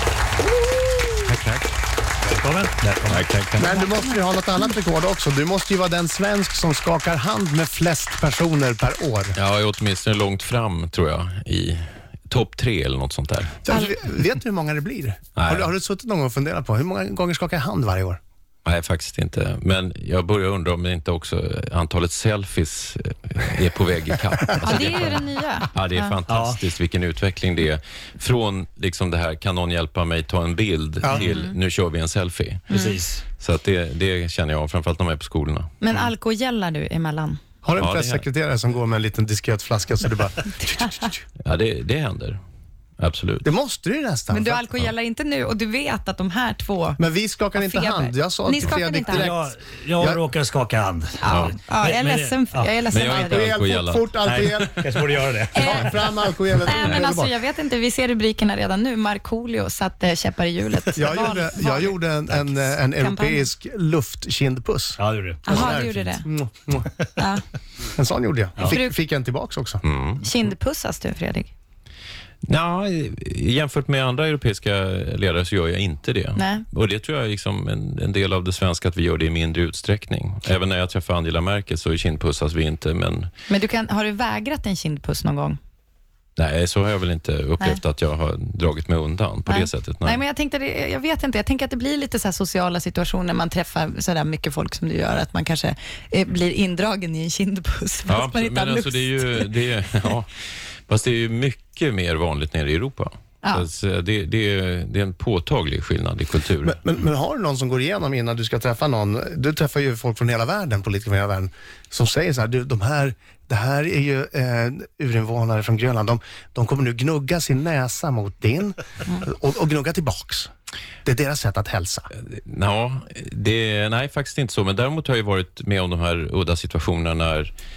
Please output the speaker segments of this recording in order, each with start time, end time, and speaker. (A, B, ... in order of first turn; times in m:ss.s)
0:01.2-0:01.7 A
0:02.2-0:03.2 B
0:03.1-0:03.8 A
0:03.6-0:09.4 C
0:09.3-0:13.6 A
0:13.6-0:18.2 C
0:15.4-0:15.7 A
0:18.6-0:32.8 A
0:24.6-0:26.1 D
0:26.3-0:26.6 B
0:31.0-0:31.3 C
0:32.7-0:33.2 B
0:33.4-0:35.7 A
0:35.8-0:37.4 D
0:37.6-0:41.2 C
0:37.8-0:38.2 A
0:41.4-0:42.4 A
0:43.0-0:43.5 A
0:43.4-0:44.7 C
0:44.3-0:47.0 D
0:47.0-0:49.5 C
0:47.6-0:49.3 D
0:49.1-0:52.7 B
0:51.2-0:53.4 D
0:51.3-0:51.5 A
0:52.9-0:54.8 A
0:53.0-0:54.8 C
0:54.2-0:55.9 B
0:55.5-0:56.0 D
0:55.5-0:57.3 C
0:56.6-1:03.4 D
1:01.0-1:06.9 C
1:05.0-1:05.6 B
1:05.4-1:06.2 D
1:07.2-1:07.4 D
1:07.9-1:09.8 C
1:08.6-1:08.9 D
1:09.8-1:10.2 A
1:10.2-1:11.5 D
1:12.4-1:23.3 A
1:16.4-1:16.6 D
1:23.5-1:25.6 D
1:26.4-1:30.2 A
1:29.4-1:39.5 D
1:38.1-1:40.3 A
1:40.9-1:46.8 A
1:46.6-2:00.5 C
2:01.0-2:02.1 C
2:02.3-2:07.5 A